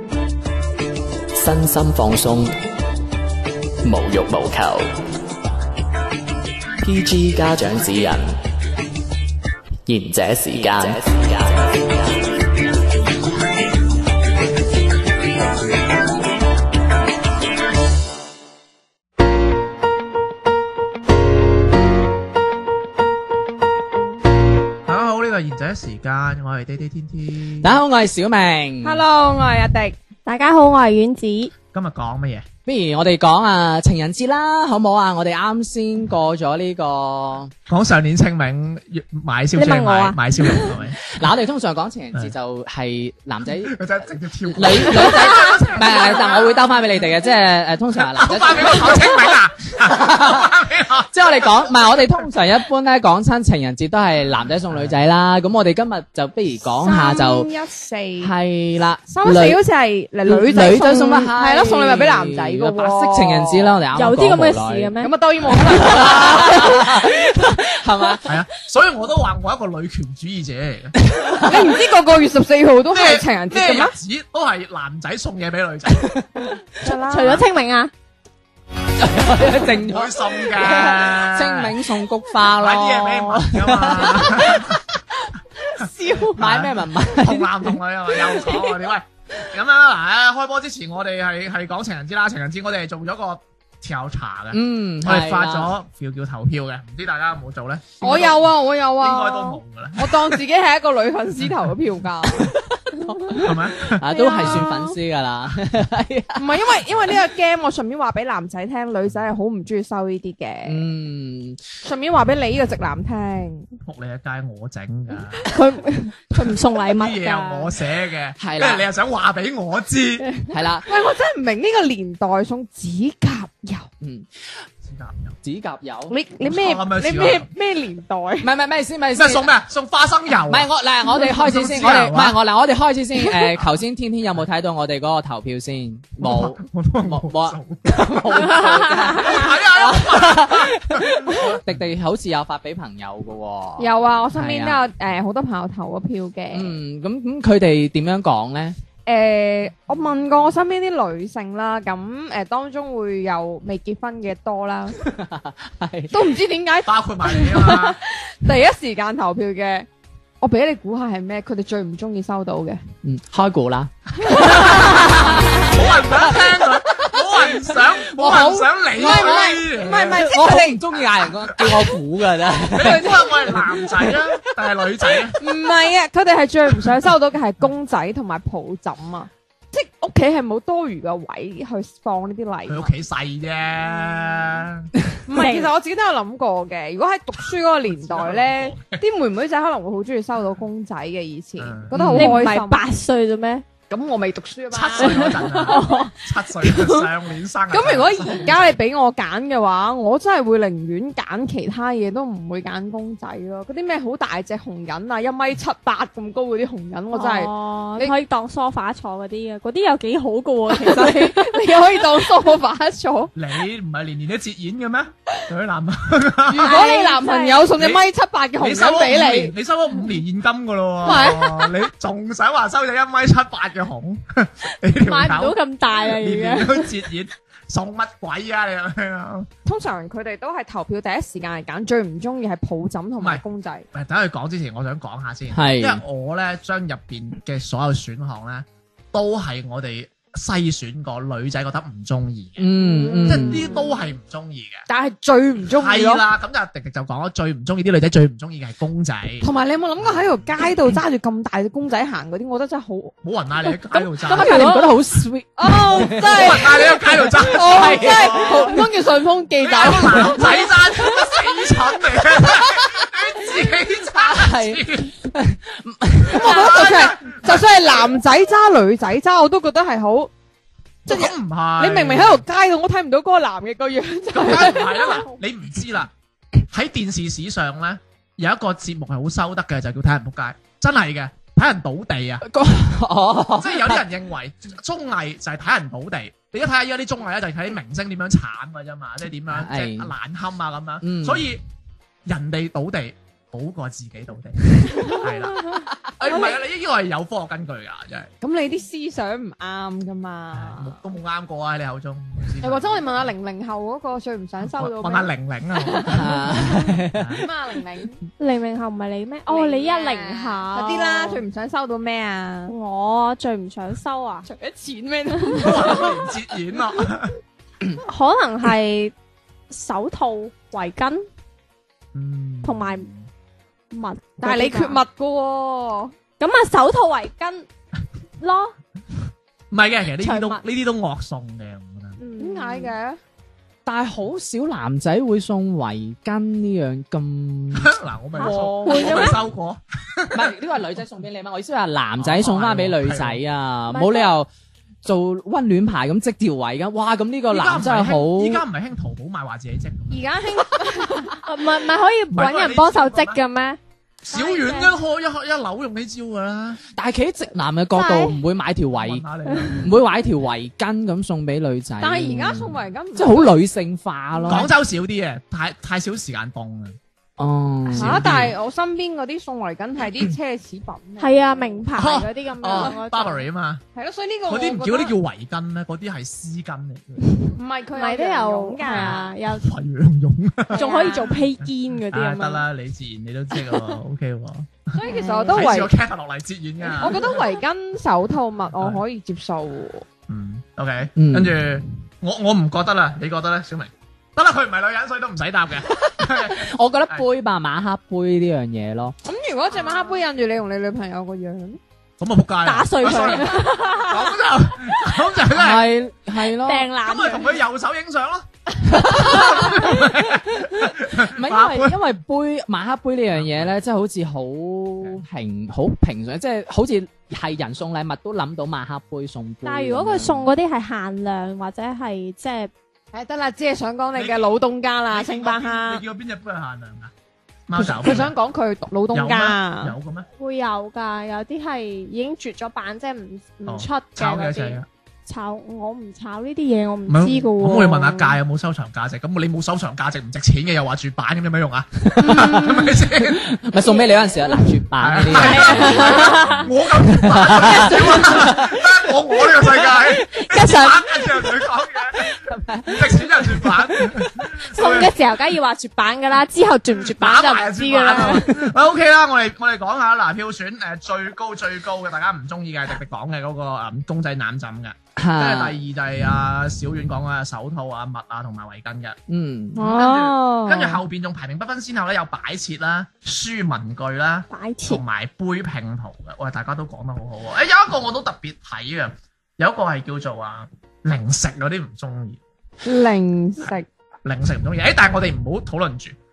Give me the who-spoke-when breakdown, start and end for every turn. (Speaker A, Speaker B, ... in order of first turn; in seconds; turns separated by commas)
Speaker A: 1.4-2.5, Speaker A: 3.8-4.9, Speaker A: 6.8-8.3, Speaker A: 9.9-12.2, Speaker B: 24.9-27.8, Speaker C: 27.6-29.0, Speaker D: 28.8-29.9, Speaker E: 30.2-31.5, Speaker B: 31.7-32.5, Speaker C: 32.6-37.5, Speaker B: 37.7-41.2, Speaker E: 39.5-40.2, Speaker C: 41.1-43.8, Speaker B: 43.5-46.4, Speaker C: 44.5-49.2, Speaker B: 48.0-51.9, Speaker C: 49.8-50.5, Speaker C: 51.1-57.5, Speaker D: 56.8-58.3, Speaker C: 58.2-59.6, Speaker D: 59.1-63.8, Speaker C: 60.2-64.9, Speaker E: 63.9-65.1, Speaker D: 65.0-66.8, Speaker C: 65.6-68.2, Speaker E: 65.8-66.3, Speaker B: 68.2-70.9, Speaker C: 71.0-71.7, Speaker D: 71.4-73.9, Speaker B: 72.9-76.1, Speaker C: 76.1-76.5, Speaker D: 76.8-77.4, Speaker E: 76.8-77.9, Speaker C: 79.0-84.8, Speaker B: 79.6-81.7, Speaker B: 82.4-84.8, Speaker B: 85.8-100.4, Speaker C: 86.0-87.7, Speaker C: 94.5-95.7, Speaker D: 98.0-102.6, Speaker B: 101.4-101.7, Speaker C: 102.8-106.4, Speaker B: 103.3-104.0, Speaker E: 104.1-104.9, Speaker D: 106.3-110.8, Speaker C: 110.7-111.6, Speaker D: 111.8-113.7, Speaker B: 113.8-115.5, Speaker E: 115.4-117.7, Speaker B: 116.9-120.3, Speaker C: 118.4-118.9, Speaker C: 120.5-120.8, Speaker D: 120.8-123.9, Speaker C: 124.0-124.3, Speaker B: 124.8-125.4, Speaker C: 125.4-126.1, Speaker D: 126.1-128.5, Speaker B: 126.4-127.5, Speaker C: 128.4-129.5, Speaker B: 129.1-132.4, Speaker C: 130.5-144.8, Speaker B: 136.2-141.8, Speaker D: 143.8-146.8, Speaker C: 146.5-148.8, Speaker D: 149.1-155.0, Speaker C: 155.0-156.2, Speaker D: 156.1-159.9, Speaker B: 156.8-158.0, Speaker D: 160.4-162.8, Speaker C: 163.0-166.4, Speaker B: 164.2-170.2, Speaker C: 166.9-174.2, Speaker D: 168.2-171.0, Speaker B: 172.7-175.4, Speaker D: 172.8-173.4, Speaker D: 175.4-182.9, Speaker B: 182.7-184.9, Speaker D: 184.2-184.4, Speaker D: 185.3-192.8, Speaker E: 185.3-185.7, Speaker B: 187.9-189.0, Speaker B: 191.6-192.5, Speaker E: 192.1-193.6, Speaker D: 193.9-197.1, Speaker B: 194.7-198.8, Speaker E: 195.0-196.1, Speaker D: 197.7-208.1, Speaker E: 207.1-212.5, Speaker D: 210.7-213.3, Speaker B: 213.3-216.9, Speaker D: 216.5-219.5, Speaker E: 216.6-217.7, Speaker B: 217.8-218.1, Speaker B: 218.6-229.5, Speaker D: 221.0-221.7, Speaker E: 225.0-226.9, Speaker D: 229.6-233.9, Speaker B: 233.2-242.7, Speaker C: 235.5-236.0, Speaker C: 242.6-243.6, Speaker D: 242.8-243.9, Speaker B: 243.2-244.8, Speaker D: 244.9-246.2, Speaker B: 245.7-249.5, Speaker D: 249.4-253.1, Speaker B: 253.2-254.6, Speaker D: 253.9-254.9, Speaker C: 254.3-258.7, Speaker D: 255.6-261.3, Speaker B: 255.9-258.8, Speaker B: 259.6-265.2, Speaker C: 263.9-266.5, Speaker B: 266.2-268.1, Speaker D: 266.3-270.3, Speaker B: 271.1-272.4, Speaker D: 271.1-275.2, Speaker B: 274.3-276.1, Speaker B: 276.7-282.4, Speaker C: 282.4-284.0, Speaker B: 283.6-291.6, Speaker C: 289.5-290.1, Speaker C: 291.0-291.4, Speaker B: 292.2-298.3, Speaker D: 298.4-301.0, Speaker B: 300.5-303.3, Speaker D: 302.6-308.2, Speaker B: 304.8-306.5, Speaker C: 306.1-307.3, Speaker B: 307.1-307.5, Speaker E: 308.4-311.4, Speaker D: 309.5-312.7, Speaker E: 312.7-314.5, Speaker D: 314.4-316.1, Speaker E: 315.5-315.8, Speaker B: 315.5-317.4, Speaker E: 318.0-319.1, Speaker E: 319.7-321.2, Speaker B: 322.1-323.3, Speaker E: 322.6-323.1, Speaker E: 323.9-325.0, Speaker D: 324.4-326.1, Speaker E: 326.4-327.6, Speaker E: 328.4-328.7, Speaker B: 329.7-332.2, Speaker E: 330.2-330.6, Speaker E: 332.2-332.9, Speaker D: 332.4-333.2, Speaker C: 333.8-337.9, Speaker B: 337.7-340.5, Speaker E: 338.4-339.4, Speaker D: 338.4-339.2, Speaker C: 340.3-344.5, Speaker B: 342.2-343.4, Speaker E: 343.9-344.3, Speaker C: 345.0-348.6, Speaker B: 347.5-350.2, Speaker D: 350.1-351.3, Speaker E: 351.3-353.8, Speaker B: 352.3-353.4, Speaker B: 354.3-356.8, Speaker D: 354.3-354.8, Speaker C: 357.0-359.2, Speaker E: 357.9-358.3, Speaker B: 359.0-359.9, Speaker C: 359.8-364.6, Speaker D: 362.0-363.5, Speaker B: 364.5-367.0, Speaker C: 367.4-368.2, Speaker D: 367.9-371.9, Speaker B: 368.0-368.5, Speaker E: 371.2-373.4, Speaker B: 371.9-373.8, Speaker D: 373.9-375.1, Speaker B: 374.5-377.5, Speaker D: 377.5-379.3, Speaker E: 377.9-379.7, Speaker B: 379.5-380.9, Speaker D: 380.7-381.4, Speaker E: 380.7-382.6, Speaker B: 382.1-385.0, Speaker D: 384.9-385.9, Speaker E: 385.0-385.7, Speaker B: 385.5-387.4, Speaker D: 387.0-390.0, Speaker B: 388.8-389.0, Speaker B: 390.3-397.2, Speaker C: 391.1-391.6, Speaker C: 395.9-399.1, Speaker D: 399.2-401.8, Speaker E: 399.8-400.2, Speaker B: 402.2-405.9, Speaker E: 402.6-404.3, Speaker C: 405.5-406.9, Speaker E: 406.6-407.6, Speaker B: 407.0-412.0, Speaker C: 408.9-409.3, Speaker E: 409.2-410.0, Speaker C: 411.1-420.5, Speaker B: 413.3-413.7, Speaker E: 419.6-422.7, Speaker D: 423.1-426.0, Speaker B: 424.1-424.5, Speaker B: 425.1-427.1, Speaker B: 427.7-428.3, Speaker D: 427.8-429.9, Speaker B: 429.1-430.3, Speaker E: 430.4-438.4, Speaker B: 433.6-434.9, Speaker B: 437.1-443.5, Speaker C: 442.1-446.5, Speaker D: 442.2-442.9, Speaker B: 445.0-455.1, Speaker E: 445.3-446.7, Speaker C: 447.1-448.8, Speaker E: 447.8-448.3, Speaker E: 450.3-451.2, Speaker C: 452.5-454.2, Speaker E: 454.7-458.7, Speaker B: 457.0-469.2, Speaker C: 465.2-465.8, Speaker C: 469.3-469.8, Speaker D: 469.8-471.0, Speaker B: 469.8-482.4, Speaker E: 474.5-475.0, Speaker D: 482.8-483.9, Speaker B: 484.2-486.1